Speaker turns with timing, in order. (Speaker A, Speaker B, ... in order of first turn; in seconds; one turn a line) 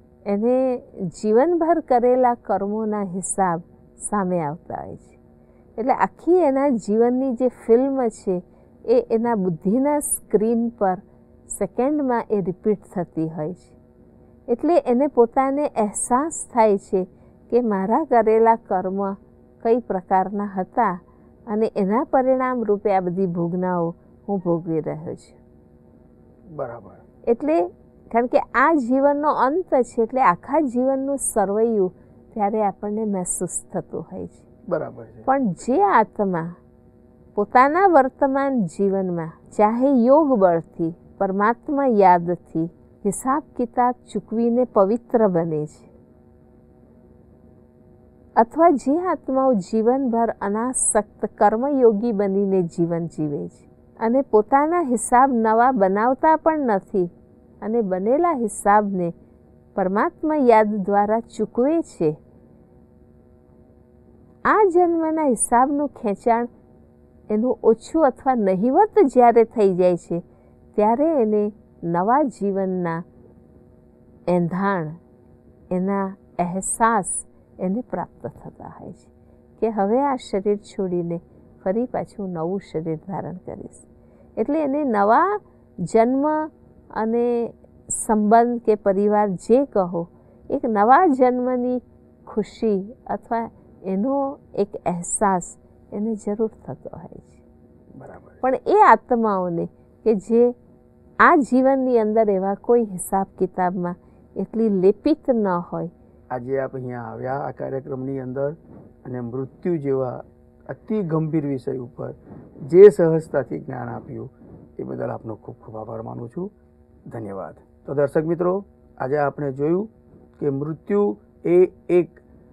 Speaker A: 0.3-5.2
Speaker A: 5.8-13.7
Speaker A: 14.5-25.4
Speaker B: 26.5-27.0
Speaker A: 27.3-34.5
Speaker B: 34.7-35.3
Speaker A: 35.3-36.6
Speaker A: 37.3-45.9
Speaker A: 48.4-59.1
Speaker A: 59.7-62.1
Speaker A: 64.5-66.5
Speaker A: 67.3-70.2
Speaker A: 70.7-73.0
Speaker A: 74.3-75.0
Speaker A: 75.7-83.8
Speaker A: 84.4-97.4
Speaker B: 97.9-98.4
Speaker A: 98.4-100.5
Speaker A: 101.2-105.9
Speaker B: 106.3-116.5
Speaker B: 117.1-122.2